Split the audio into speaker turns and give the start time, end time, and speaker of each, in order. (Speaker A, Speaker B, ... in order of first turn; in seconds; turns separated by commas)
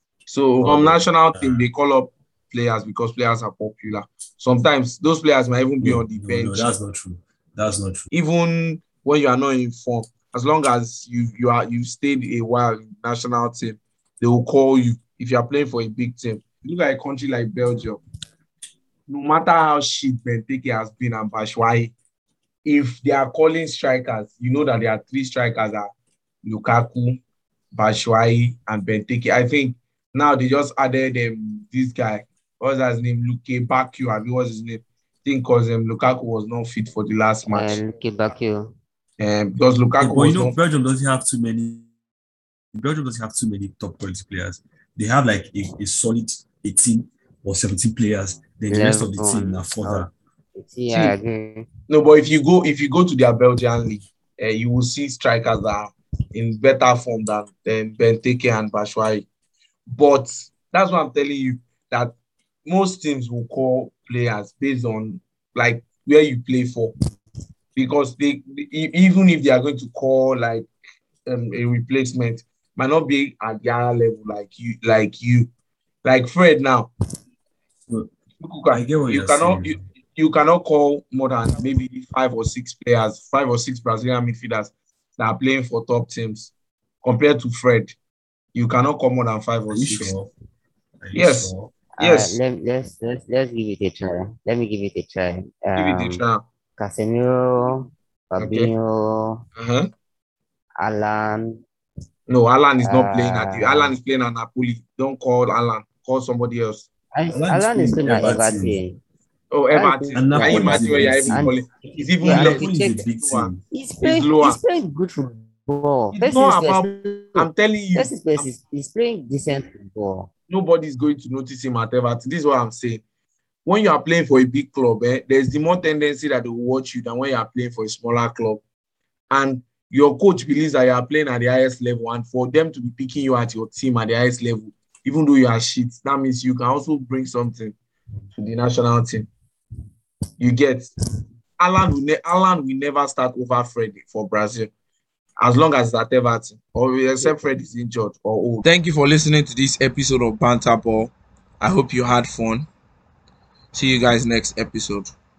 Speaker A: 0.3-6.8, Speaker B: 0.6-1.7, Speaker B: 5.8-8.1, Speaker A: 8.1-18.0, Speaker A: 19.1-21.9, Speaker A: 22.6-25.9, Speaker A: 26.4-27.2, Speaker A: 27.7-37.8, Speaker C: 37.5-38.8, Speaker A: 39.2-40.6, Speaker B: 40.0-41.9, Speaker B: 42.7-50.1, Speaker C: 48.7-51.7, Speaker A: 50.9-51.2, Speaker A: 51.9-59.3, Speaker A: 59.9-62.1, Speaker A: 62.6-66.9, Speaker A: 67.8-70.7, Speaker A: 71.3-75.5, Speaker A: 76.0-76.9, Speaker A: 78.4-86.5, Speaker B: 78.7-79.8, Speaker A: 87.0-87.9, Speaker A: 88.5-90.1, Speaker B: 89.7-90.3, Speaker B: 91.0-91.7, Speaker A: 91.1-92.4, Speaker C: 91.9-96.2, Speaker A: 95.8-96.4, Speaker C: 96.8-99.5, Speaker A: 98.4-98.7, Speaker A: 99.6-99.9, Speaker C: 100.8-101.6, Speaker A: 102.3-106.9, Speaker C: 102.8-104.0, Speaker C: 107.1-109.0, Speaker B: 107.3-108.9, Speaker A: 109.5-113.5, Speaker C: 109.7-113.1, Speaker B: 110.2-111.5, Speaker B: 112.3-113.6, Speaker C: 113.7-120.3, Speaker A: 114.0-114.6, Speaker A: 116.1-118.5, Speaker A: 120.5-123.0, Speaker A: 123.7-128.6, Speaker A: 129.3-137.8, Speaker A: 138.4-139.3, Speaker A: 140.4-140.9, Speaker A: 141.6-144.7, Speaker A: 145.4-152.7, Speaker A: 153.7-155.1